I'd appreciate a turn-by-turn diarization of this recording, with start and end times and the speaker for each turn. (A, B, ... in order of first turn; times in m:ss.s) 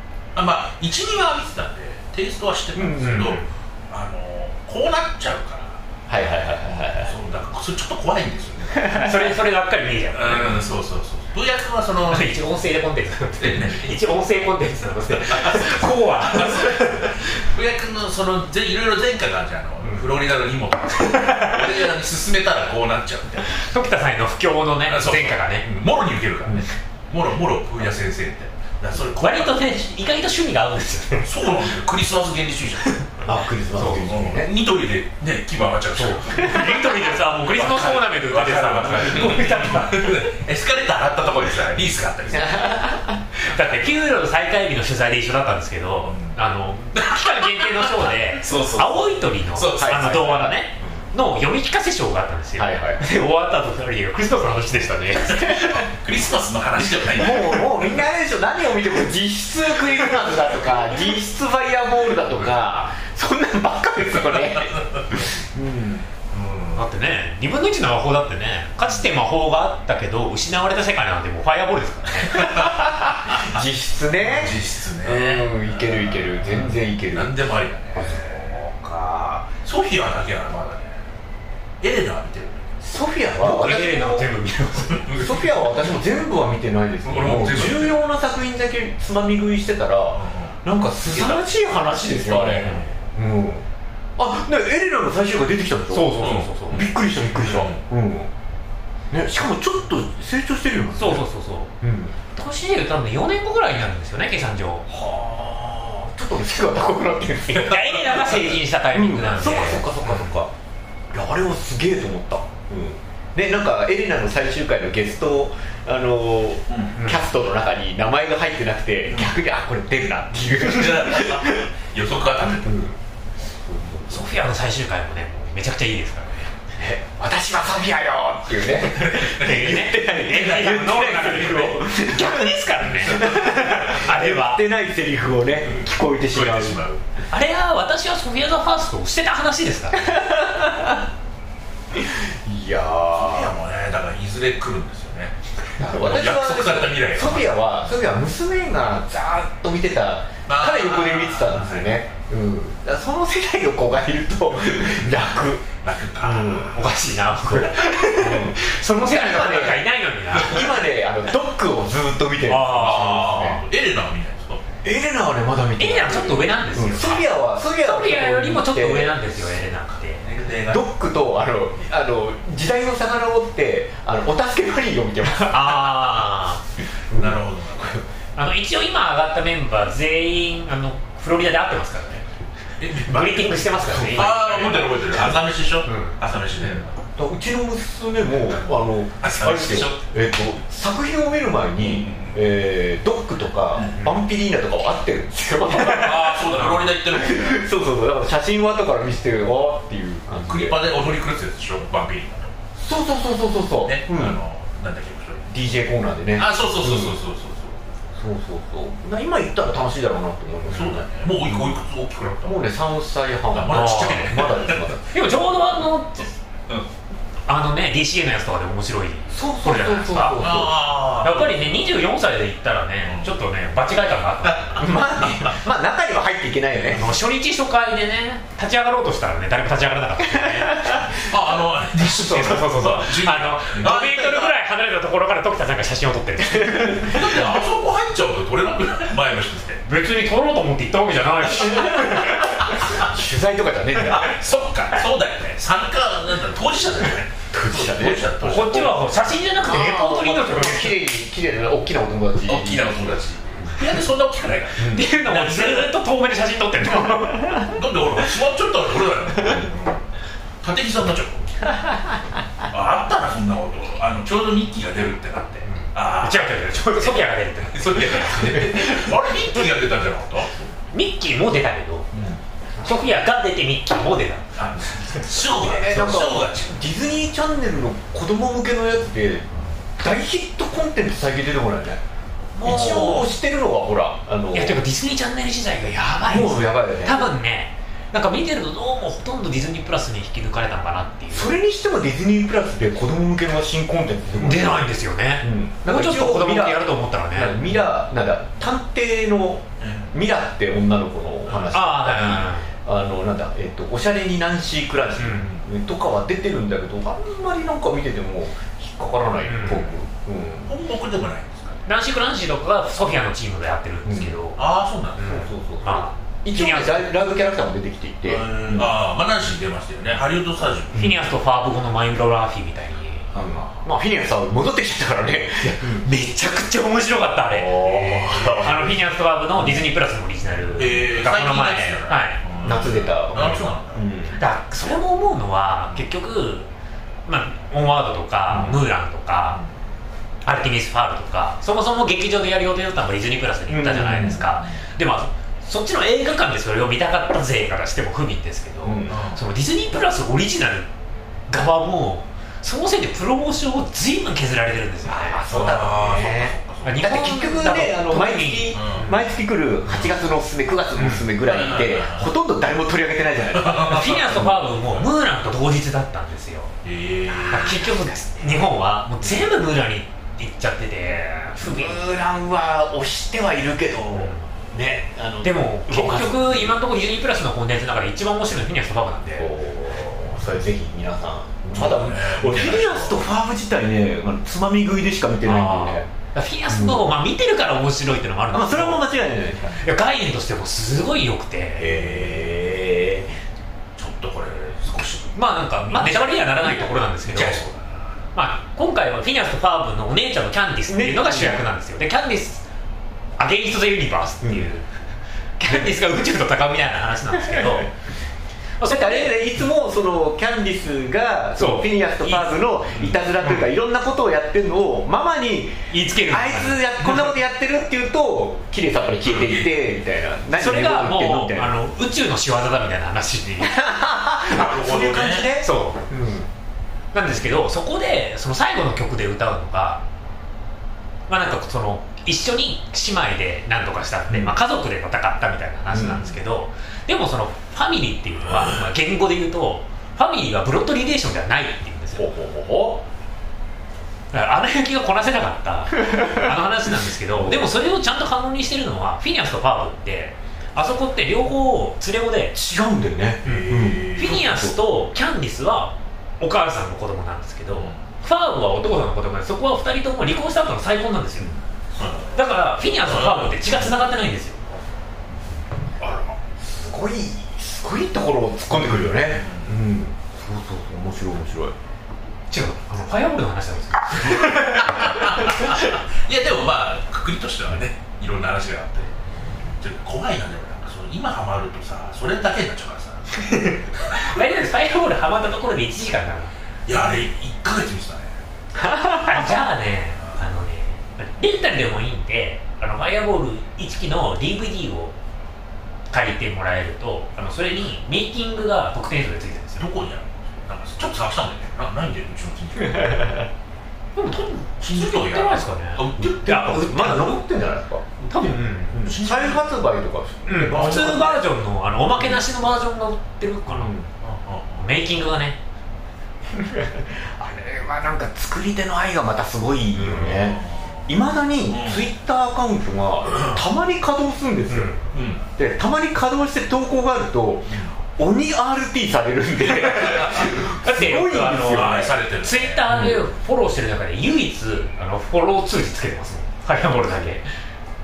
0:00.4-0:05.8 A
0:02.8-0:03.5 B
0:06.1-0:07.2 B
0:06.9-0:09.1 A
0:08.7-0:09.3 B
0:08.9-0:10.6 C
0:10.1-0:12.3 A
0:12.1-0:17.2 C
0:13.4-0:14.1 A
0:15.3-0:23.6 A
0:21.2-0:21.6 C
0:23.5-0:25.7 C
0:24.9-0:29.7 A
0:29.2-0:31.3 C
0:31.2-0:33.2 A
0:33.2-0:34.5 B
0:33.8-0:34.1 C
0:33.9-0:42.9 A
0:36.0-0:40.1 C
0:42.3-0:43.2 B
0:43.5-0:55.8 C
0:43.6-0:43.8 A
0:46.1-0:46.4 A
0:47.0-0:50.5 A
0:49.8-0:50.6 B
0:52.6-0:53.0 B
0:55.3-0:55.8 B
0:55.4-0:58.0 A
0:57.0-1:06.1 B
1:04.2-1:05.3 A
1:06.3-1:06.8 A
1:06.8-1:12.5 C
1:12.3-1:19.5 B
1:12.4-1:13.6 A
1:14.2-1:18.6 A
1:19.6-1:21.0 A
1:21.8-1:22.8 A
1:22.8-1:24.3 B
1:23.4-1:25.2 C
1:24.9-1:26.0 A
1:25.1-1:33.7 B
1:27.0-1:28.0 A
1:30.1-1:30.6 A
1:31.1-1:32.9 A
1:32.3-1:32.9 C
1:34.2-1:38.3 B
1:35.9-1:36.9 C
1:36.2-1:37.8 A
1:39.1-1:41.3 B
1:41.0-1:41.7 C
1:41.8-1:42.2 B
1:42.3-1:44.9 C
1:44.9-1:50.5 B
1:47.5-1:49.8 C
1:51.1-2:01.6 B
1:56.7-1:57.0 A
1:57.0-1:57.3 C
1:59.1-1:59.3 A
2:00.6-2:02.8 A
2:02.4-2:04.3 B
2:04.1-2:06.5 C
2:06.8-2:16.8 B
2:09.0-2:11.7 A
2:09.2-2:14.6 C
2:13.1-2:13.7 A
2:16.3-2:17.0 A
2:17.3-2:20.1 C
2:20.0-2:21.1 B
2:21.9-2:23.6 B
2:23.1-2:27.6 A
2:25.8-2:35.7 B
2:30.5-2:32.1 A
2:35.8-2:36.7 A
2:36.2-2:36.8 B
2:36.6-2:40.7 C
2:37.5-2:43.6 B
2:42.5-2:43.3 C
2:42.6-2:44.7 A
2:44.8-2:49.2 B
2:45.8-2:50.3 C
2:50.2-2:50.9 A
2:50.7-2:56.2 B
2:55.5-2:56.6 C
2:57.1-2:58.0 B
2:57.1-2:58.0 A
2:58.4-3:02.2 C
3:02.8-3:07.0 A
3:03.0-3:05.2 C
3:03.9-3:05.3 B
3:05.9-3:06.2 C
3:07.2-3:20.8 B
3:08.5-3:10.0 A
3:11.8-3:12.4 A
3:13.8-3:14.0 A
3:15.6-3:17.7 A
3:20.4-3:22.5 A
3:22.8-3:24.4 B
3:23.8-3:25.5 A
3:25.5-3:27.2 B
3:26.4-3:27.9 A
3:28.2-3:31.8 B
3:30.7-3:32.7 A
3:32.4-3:35.3 B
3:33.5-3:34.9 A
3:33.7-3:34.5 C
3:35.1-3:36.3 C
3:37.5-3:40.4 C
3:39.3-3:40.8 B
3:40.3-3:42.0 A
3:41.2-3:44.9 C
3:43.1-3:43.4 A
3:44.5-3:45.5 A
3:44.8-3:47.1 B
3:46.9-3:51.2 C
3:50.3-3:51.3 B
3:51.2-3:54.5 A
3:52.0-3:57.4 C
3:56.6-3:57.6 B
3:57.0-3:59.8 A
3:59.9-4:02.7 C
4:01.6-4:04.6 B
4:01.6-4:03.1 A
4:04.1-4:09.0 A
4:07.5-4:08.8 B
4:08.4-4:11.0 C
4:09.6-4:13.8 B
4:12.5-4:15.9 A
4:14.8-4:15.1 B
4:14.9-4:17.8 C
4:16.9-4:17.7 B
4:17.7-4:20.0 A
4:20.6-4:21.5 A
4:21.7-4:22.4 B
4:22.6-4:30.7 A
4:25.7-4:28.6 C
4:28.4-4:29.1 B
4:30.9-4:32.2 C
4:32.1-4:32.4 A
4:32.8-4:33.1 B
4:32.8-4:34.6 C
4:34.6-4:36.8 A
4:35.5-4:42.0 B
4:42.6-4:43.3 C
4:42.6-4:44.8 B
4:44.5-4:51.6 C
4:46.2-4:47.3 B
4:51.3-5:10.8 B
4:54.4-4:57.6 C
4:59.8-5:00.1 A
5:01.5-5:01.8 A
5:01.7-5:02.7 C
5:05.2-5:05.5 C
5:05.2-5:05.6 A
5:09.4-5:09.9 C
5:10.7-5:11.8 A
5:11.9-5:14.6 C
5:14.0-5:14.4 B
5:14.6-5:15.4 A
5:15.2-5:17.1 C
5:15.2-5:19.0 B
5:18.3-5:21.0 A
5:20.9-5:21.2 B
5:20.9-5:23.3 C
5:23.4-5:23.7 A
5:23.4-5:26.1 B
5:26.0-5:32.4 C
5:27.5-5:29.9 B
5:27.8-5:28.8 A
5:30.8-5:34.0 A
5:32.6-5:34.4 B
5:34.4-5:36.7 C
5:37.3-5:39.6 C
5:38.5-5:38.8 B
5:40.4-5:50.9 C
5:43.7-5:44.4 B
5:44.2-5:44.8 A
5:48.8-5:49.2 B
5:49.1-5:49.4 A
5:51.5-5:55.4 C
5:55.0-6:04.6 B
5:55.5-5:57.0 A
5:56.8-5:59.2 C
5:58.7-5:59.1 A
6:01.0-6:01.3 C
6:01.4-6:02.3 A
6:03.5-6:05.0 A
6:03.8-6:06.7 C
6:06.8-6:07.8 A
6:07.3-6:07.8 B
6:07.5-6:12.0 C
6:11.6-6:16.8 B
6:14.1-6:14.4 C
6:15.4-6:19.5 C
6:19.4-6:26.1 B
6:21.7-6:23.2 A
6:25.5-6:29.1 C
6:26.7-6:27.1 B
6:28.5-6:29.8 B
6:29.8-6:31.9 C
6:31.8-6:33.4 B
6:31.8-6:32.7 A
6:34.0-6:38.1 A
6:35.4-6:37.6 C
6:38.4-6:42.6 C
6:40.9-6:41.6 B
6:43.4-6:44.9 C
6:44.4-6:44.7 B
6:45.6-6:47.9 C
6:47.4-6:47.9 B
6:48.8-6:49.4 C
6:48.8-7:01.8 B
6:51.6-6:52.6 C
6:55.9-6:57.3 C
6:59.2-6:59.8 A
7:00.6-7:03.8 C
7:03.6-7:06.5 B
7:04.4-7:05.5 A
7:05.6-7:06.0 C
7:07.1-7:10.0 C
7:11.3-7:22.3 C
7:14.3-7:14.6 B
7:15.9-7:16.4 B
7:18.5-7:18.9 A
7:22.2-7:23.0 B
7:24.3-7:32.6 C
7:26.2-7:26.5 B
7:27.4-7:27.7 B
7:32.6-7:34.8 B
7:33.4-7:34.4 A
7:33.5-7:41.5 C
7:37.7-7:38.0 A
7:42.0-7:42.4 A
7:42.3-7:44.6 C
7:43.0-7:43.8 A
7:46.0-7:46.3 A
7:46.6-7:51.8 B
7:48.7-7:49.8 A
7:52.5-7:55.9 C
7:54.3-8:04.4 A
8:03.5-8:06.5 C
8:06.9-8:08.4 A
8:08.8-8:09.7 B
8:09.1-8:15.2 C
8:16.1-8:19.9 C
8:19.8-8:23.4 A
8:22.8-8:23.5 B
8:24.2-8:27.4 C
8:24.8-8:26.8 A
8:26.2-8:28.1 B
8:28.3-8:29.1 C
8:28.4-8:29.8 A
8:28.9-8:31.4 B
8:30.5-8:33.9 C
8:30.7-8:31.4 A
8:33.7-8:34.1 B
8:34.2-8:34.9 A
8:34.8-8:35.6 C
8:36.5-8:45.0 B
8:40.0-8:41.1 A
8:41.7-8:42.1 A
8:43.3-8:43.6 A
8:44.7-8:45.0 C
8:45.1-8:45.4 A
8:45.6-8:52.2 B
8:49.8-8:50.7 A
8:50.8-8:57.4 C
8:51.6-8:52.8 A
8:52.9-8:53.3 B